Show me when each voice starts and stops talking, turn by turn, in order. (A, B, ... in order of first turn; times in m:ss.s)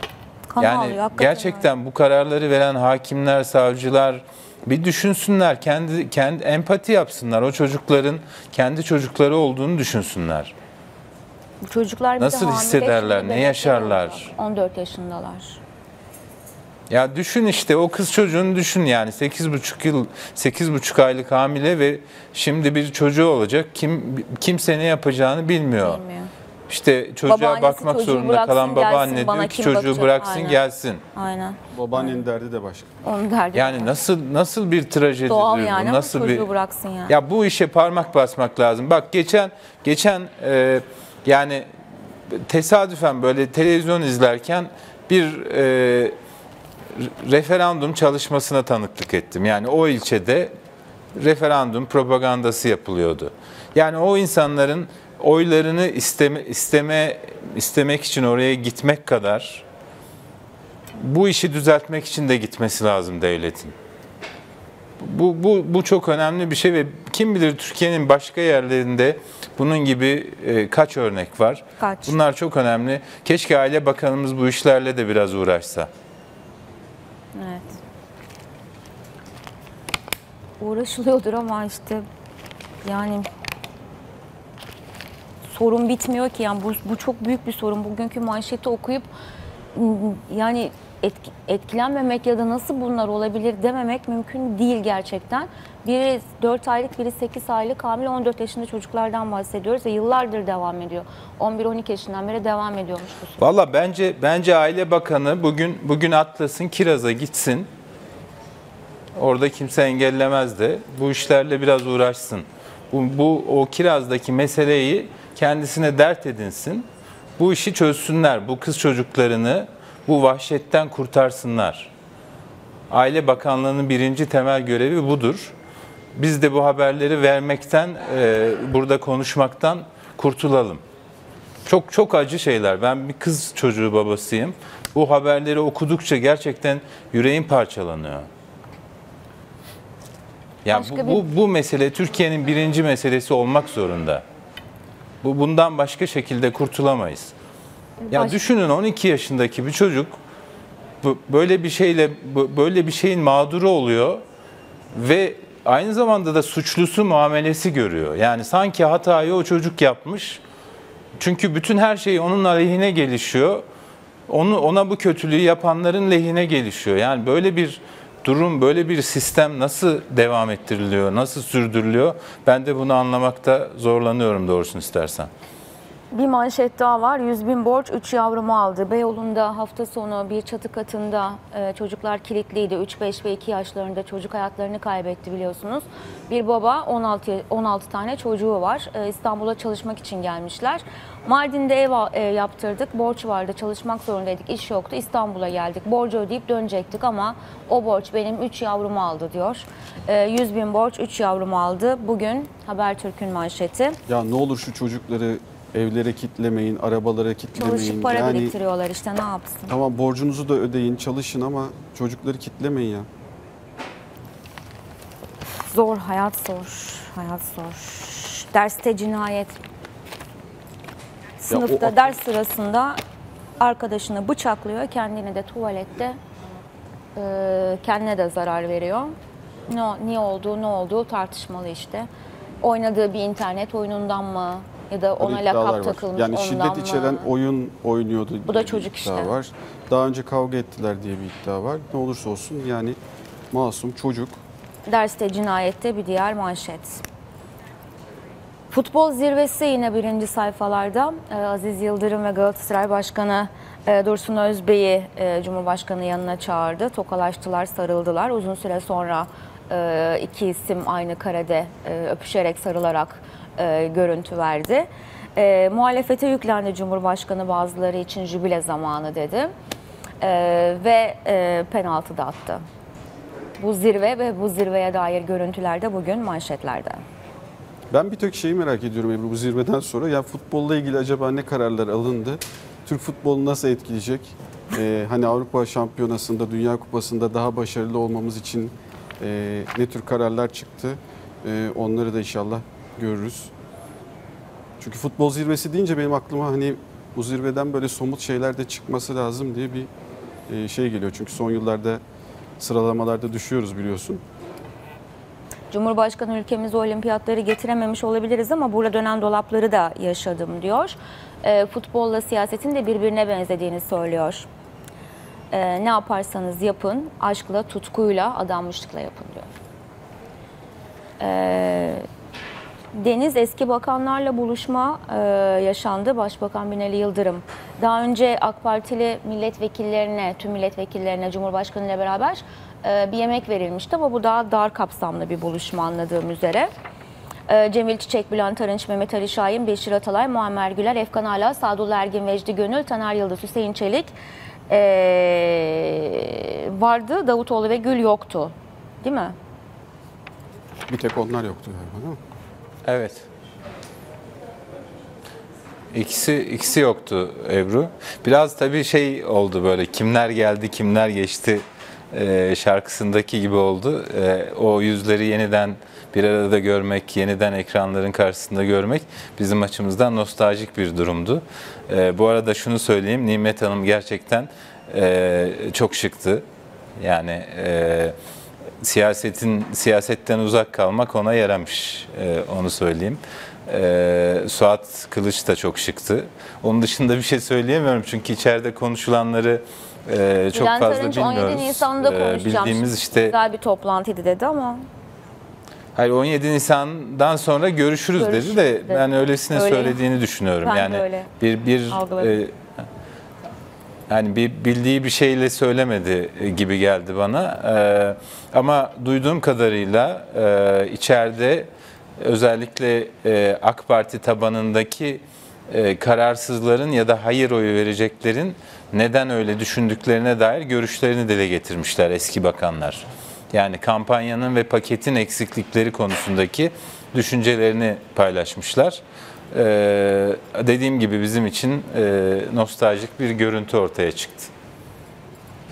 0:00.5-0:01.6 A
0:00.6-0:10.5 B
0:11.6-0:15.6 A
0:12.2-0:14.3 B
0:16.9-0:26.0 B
0:25.8-0:26.3 A
0:26.7-0:31.0 B
0:27.3-0:30.6 A
0:31.2-0:32.2 A
0:31.7-0:32.9 C
0:33.0-0:33.9 A
0:33.6-0:36.5 B
0:35.3-0:37.2 A
0:37.1-0:41.7 B
0:42.3-0:46.2 B
0:47.0-0:50.5 B
0:51.2-0:59.6 B
1:01.0-1:03.7 B
1:05.0-1:15.9 B
1:11.8-1:12.2 A
1:17.4-1:17.8 A
1:20.6-1:22.0 A
1:22.8-1:23.3 A
1:25.5-1:29.1 A
1:29.8-1:43.5 A
1:43.4-1:47.7 B
1:49.2-1:56.9 B
1:57.4-2:01.9 B
2:02.9-2:05.5 B
2:06.2-2:10.8 B
2:11.6-2:18.3 B
2:20.6-2:24.2 B
2:20.7-2:21.2 A
2:25.2-2:27.3 B
2:28.0-2:28.4 A
2:28.1-2:30.2 B
2:31.0-2:34.2 B
2:34.9-2:40.4 B
2:41.2-2:43.6 B
2:44.3-2:55.3 B
2:56.1-3:24.0 A
3:24.1-3:28.5 C
3:27.6-3:29.7 A
3:29.7-3:33.1 C
3:35.7-3:39.6 A
3:41.4-3:43.0 A
3:41.5-3:42.2 C
3:43.6-3:46.2 A
3:47.2-3:49.2 A
3:49.7-3:52.1 A
3:52.6-3:57.3 A
3:55.2-4:03.0 C
3:58.5-3:59.3 A
4:03.5-4:04.4 C
4:04.9-4:07.0 A
4:08.7-4:29.5 A
4:30.2-4:32.6 A
4:33.6-4:37.0 A
4:37.9-4:53.5 C
4:54.8-4:59.9 C
5:00.5-5:02.0 C
5:02.6-5:04.2 C
5:05.7-5:14.5 A
5:15.5-5:19.5 A
5:21.2-5:22.1 A
5:22.9-5:36.7 A
5:37.5-5:44.1 A
5:44.7-5:49.4 A
5:50.9-5:52.2 C
5:52.8-5:53.3 B
5:55.9-6:16.4 B
6:17.0-6:18.2 B
6:18.8-6:33.4 B
6:30.5-6:34.8 A
6:36.0-6:42.5 B
6:38.2-6:40.0 A
6:40.6-6:41.3 A
6:41.9-6:42.4 A
6:44.1-7:14.5 B